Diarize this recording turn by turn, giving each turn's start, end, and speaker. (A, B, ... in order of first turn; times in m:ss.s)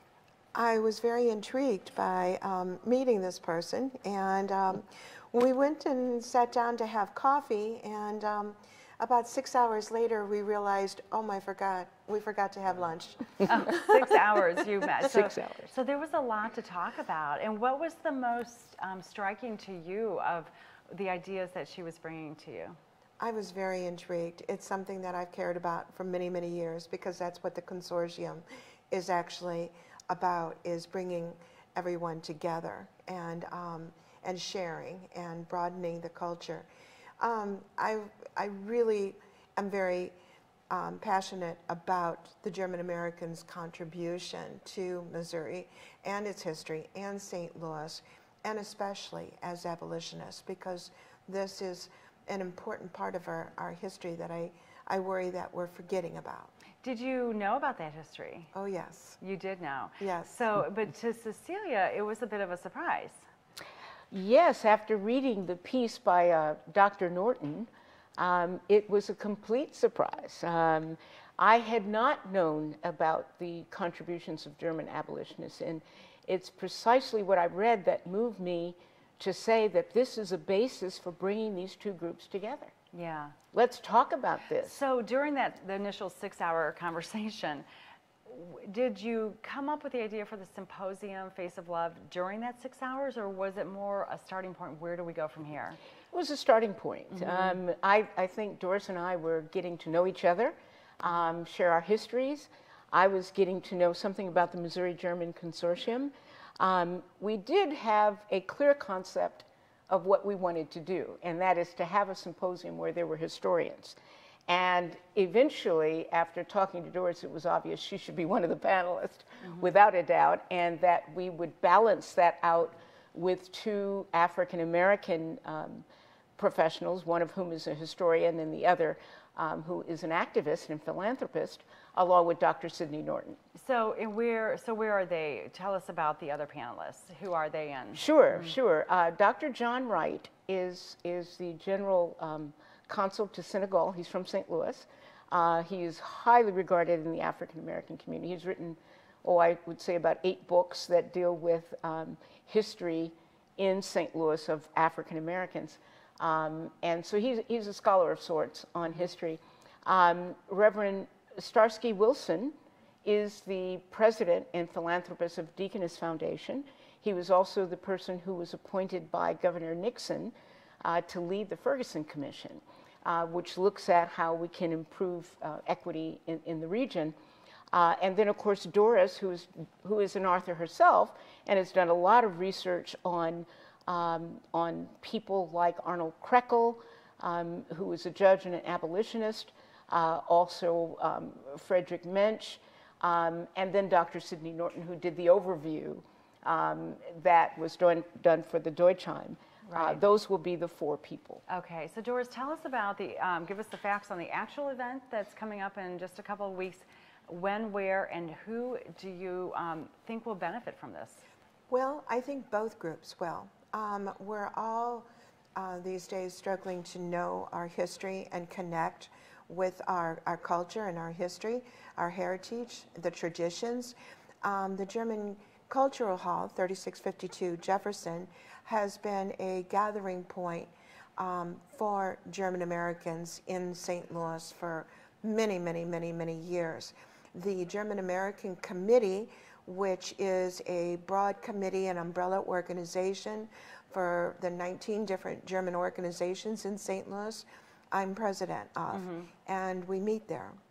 0:00.5-0:13.8 A
0:13.4-0:22.8 B
0:15.4-0:15.7 C
0:23.2-0:36.7 A
0:37.2-0:40.1 A
0:40.7-0:56.5 A
0:56.8-0:58.5 B
0:58.5-0:59.2 A
0:59.2-1:03.2 B
1:00.0-1:00.3 A
1:04.1-1:22.7 C
1:22.9-1:23.3 B
1:23.5-1:24.8 C
1:24.6-1:27.6 B
1:28.2-1:35.8 B
1:36.1-1:54.0 C
1:54.5-2:05.8 C
2:06.4-2:13.4 C
2:13.5-2:18.5 B
2:17.9-2:57.2 C
2:57.7-3:21.4 C
3:19.7-3:20.0 B
3:21.5-3:31.2 B
3:31.7-4:10.6 A
4:08.9-4:09.3 B